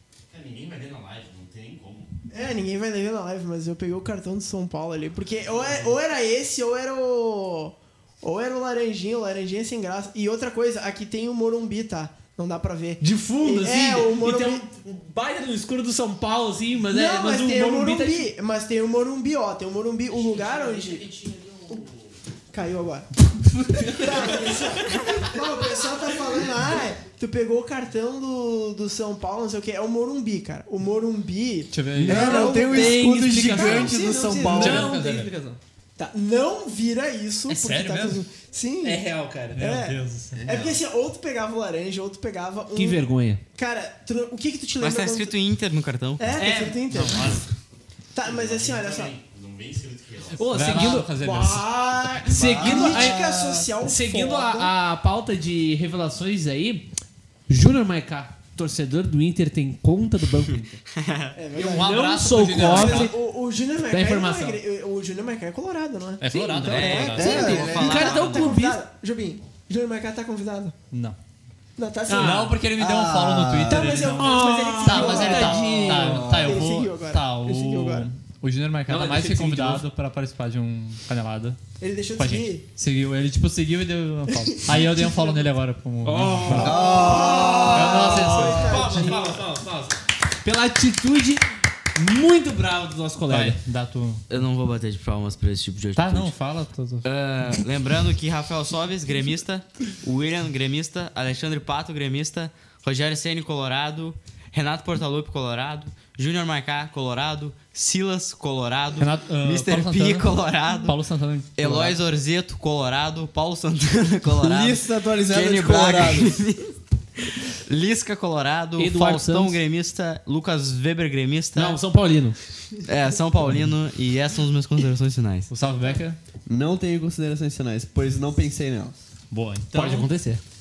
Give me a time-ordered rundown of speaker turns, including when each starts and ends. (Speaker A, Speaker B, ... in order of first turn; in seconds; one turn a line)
Speaker A: 0.3-2.1
Speaker B: 2.3-14.7
Speaker A: 5.5-5.9
Speaker C: 13.0-18.3
Speaker B: 16.9-21.1
Speaker A: 20.2-22.0
Speaker B: 22.5-23.1
Speaker B: 23.8-34.9
Speaker C: 23.8-24.2
Speaker D: 31.7-32.4
Speaker E: 32.0-34.9
Speaker C: 32.0-35.6
Speaker D: 34.5-35.3
Speaker B: 36.0-45.3
Speaker D: 37.5-38.2
Speaker C: 38.8-39.7
Speaker D: 39.5-40.5
Speaker A: 40.4-40.7
Speaker C: 42.7-43.4
Speaker F: 44.8-46.3
Speaker B: 46.2-47.3
Speaker C: 46.3-46.9
Speaker D: 46.9-47.5
Speaker B: 48.1-49.1
Speaker A: 48.2-50.5
Speaker C: 50.3-51.1
Speaker D: 50.5-51.7
Speaker B: 50.7-54.7
Speaker C: 52.2-56.9
Speaker E: 52.4-53.7
Speaker C: 57.5-60.8
Speaker F: 60.9-61.3
Speaker B: 61.3-70.7
Speaker D: 61.5-63.1
Speaker C: 61.5-63.2
Speaker C: 63.9-64.6
Speaker D: 66.2-67.4
Speaker C: 66.6-68.8
Speaker F: 66.7-68.1
Speaker E: 67.2-68.5
Speaker D: 70.9-71.2
Speaker B: 71.8-72.5
Speaker C: 72.1-72.5
Speaker D: 72.2-81.6
Speaker E: 72.7-74.0
Speaker B: 73.7-78.1
Speaker C: 74.1-76.4
Speaker E: 76.0-76.5
Speaker C: 78.9-79.8
Speaker B: 81.8-82.6
Speaker D: 82.2-87.0
Speaker B: 84.5-85.3
Speaker C: 86.0-93.6
Speaker E: 86.5-88.5
Speaker B: 86.5-89.4
Speaker D: 87.6-89.1
Speaker D: 93.3-94.2
Speaker F: 94.3-96.3
Speaker D: 96.0-97.1
Speaker F: 97.0-111.0
Speaker D: 109.0-112.0
Speaker F: 111.6-121.8
Speaker E: 114.3-116.4
Speaker C: 118.8-119.6
Speaker C: 121.5-122.4
Speaker F: 122.8-125.5
Speaker D: 125.5-126.2
Speaker E: 126.5-129.0
Speaker D: 129.3-130.1
Speaker C: 129.7-130.4